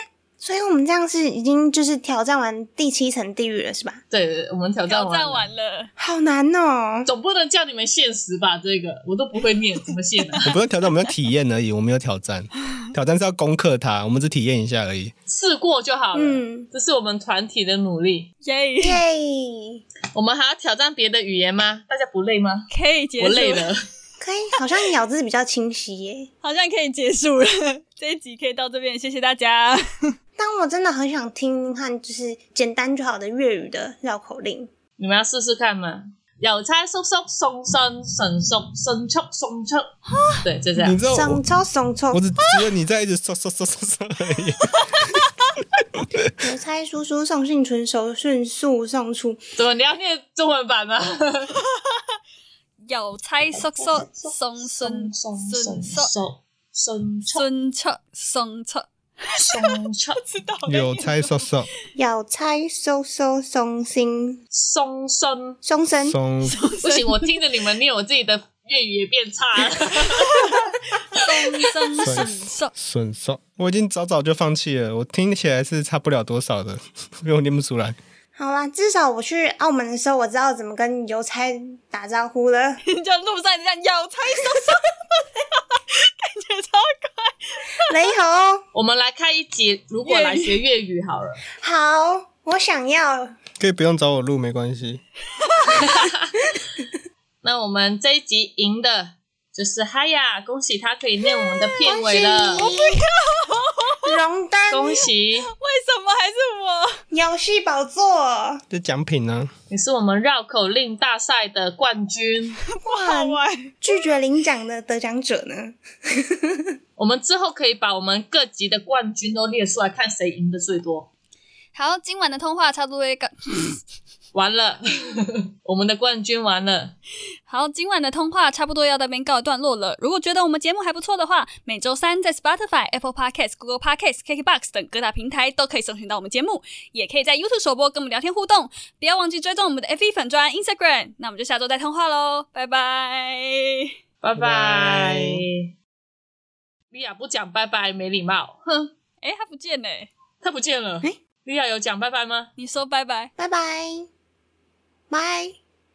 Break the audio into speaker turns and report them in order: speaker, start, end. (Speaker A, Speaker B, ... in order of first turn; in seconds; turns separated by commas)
Speaker A: 0.4-4.0, Speaker B: 4.1-5.4, Speaker C: 4.9-5.9, Speaker A: 6.0-7.1, Speaker B: 7.0-10.4, Speaker D: 10.4-15.1, Speaker B: 15.3-18.3, Speaker A: 16.1-16.7, Speaker C: 18.4-19.0, Speaker A: 18.8-19.8, Speaker B: 20.1-22.7, Speaker C: 22.7-23.7, Speaker B: 23.2-23.8, Speaker A: 24.2-26.3, Speaker C: 26.4-30.1, Speaker A: 30.4-34.7, Speaker B: 35.0-39.9, Speaker C: 40.1-40.4, Speaker B: 40.4-41.0, Speaker D: 40.8-41.4, Speaker A: 41.1-42.2, Speaker D: 42.1-45.1, Speaker C: 44.7-45.5, Speaker A: 46.4-49.4, Speaker B: 49.6-51.5, Speaker C: 51.6-52.0, Speaker C: 52.9-56.1, Speaker B: 53.5-57.5, Speaker C: 57.3-61.5, Speaker B: 59.4-60.2, Speaker D: 60.7-61.7, Speaker A: 62.0-64.4, Speaker B: 64.5-65.6, Speaker A: 65.6-66.2, Speaker D: 66.0-66.6, Speaker C: 66.4-67.4, Speaker B: 66.8-70.5, Speaker C: 70.2-72.7, Speaker D: 72.0-78.0, Speaker A: 78.3-82.8, Speaker C: 82.8-87.8, Speaker A: 87.8-88.6, Speaker B: 88.7-91.4, Speaker C: 90.0-90.5, Speaker A: 91.6-93.4, Speaker D: 93.6-95.0, Speaker C: 95.4-96.0, Speaker B: 95.8-96.3, Speaker B: 97.4-102.7, Speaker C: 101.4-101.8, Speaker A: 101.8-103.0, Speaker C: 102.5-104.1, Speaker A: 104.0-105.0, Speaker B: 104.7-105.5, Speaker C: 105.5-107.0, Speaker A: 107.1-108.6, Speaker D: 108.7-109.5, Speaker B: 109.7-112.6, Speaker C: 112.7-113.8, Speaker A: 112.8-116.7, Speaker B: 117.0-121.1, Speaker C: 121.7-123.8, Speaker B: 124.3-126.9, Speaker C: 127.5-143.9, Speaker B: 144.2-145.7, Speaker D: 144.3-145.4, Speaker B: 146.9-148.9, Speaker C: 149.2-150.1, Speaker B: 150.4-152.5, Speaker C: 152.6-153.3, Speaker A: 153.4-154.1, Speaker A: 155.1-155.6